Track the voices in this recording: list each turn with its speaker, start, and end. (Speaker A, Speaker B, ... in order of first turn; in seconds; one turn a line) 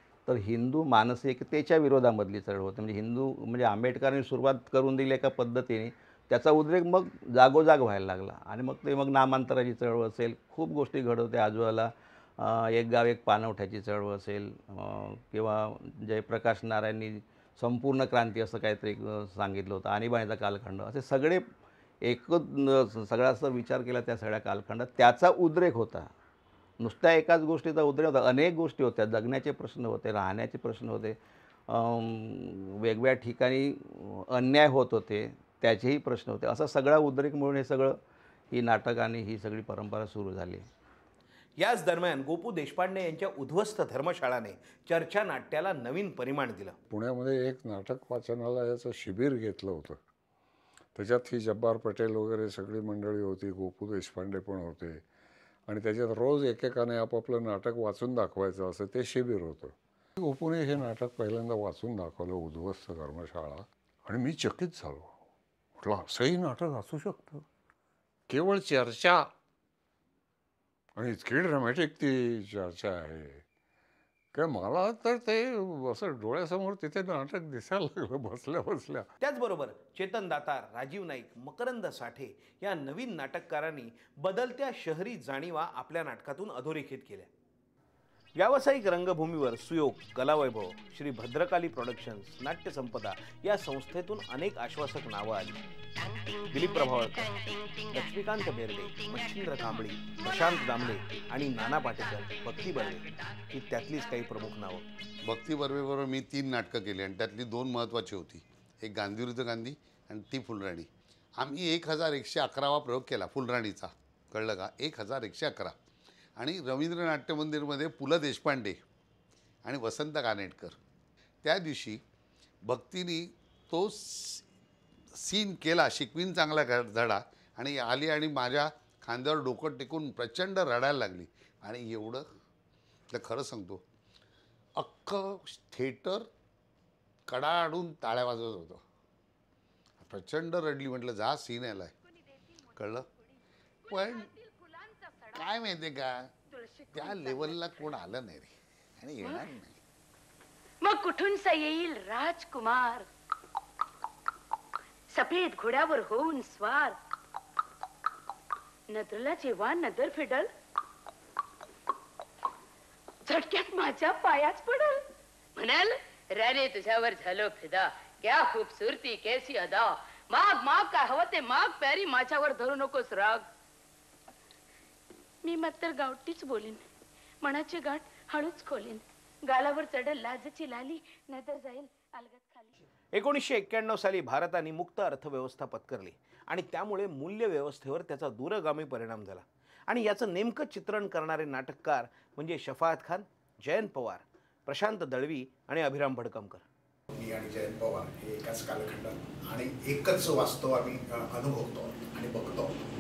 Speaker A: 0.3-21.4
Speaker A: 22.1-26.1
Speaker A: 26.8-31.1
Speaker A: 31.7-37.9
Speaker A: 38.5-40.6
Speaker B: 41.6-46.7
Speaker C: 46.9-50.0
Speaker C: 51.0-55.0
Speaker C: 55.7-65.1
Speaker C: 65.8-67.4
Speaker C: 68.3-69.3
Speaker C: 71.0-73.4
Speaker C: 74.3-79.1
Speaker B: 79.2-87.3
Speaker B: 88.4-95.6
Speaker B: 96.5-104.8
Speaker D: 105.2-110.9
Speaker D: 111.4-115.8
Speaker D: 116.4-118.8
Speaker D: 119.6-120.8
Speaker D: 121.4-122.0
Speaker D: 122.7-124.4
Speaker D: 125.2-132.3
Speaker D: 133.1-133.8
Speaker D: 134.8-136.3
Speaker D: 137.3-138.8
Speaker D: 140.0-141.9
Speaker D: 142.7-143.1
Speaker D: 143.9-144.3
Speaker E: 144.6-145.3
Speaker D: 145.3-146.3
Speaker E: 146.5-147.6
Speaker D: 146.9-149.7
Speaker E: 150.8-153.1
Speaker E: 155.1-157.0
Speaker E: 158.9-160.5
Speaker E: 163.3-165.0
Speaker E: 165.6-173.4
Speaker E: 175.4-176.8
Speaker E: 177.4-182.7
Speaker B: 183.1-196.6
Speaker F: 197.1-202.8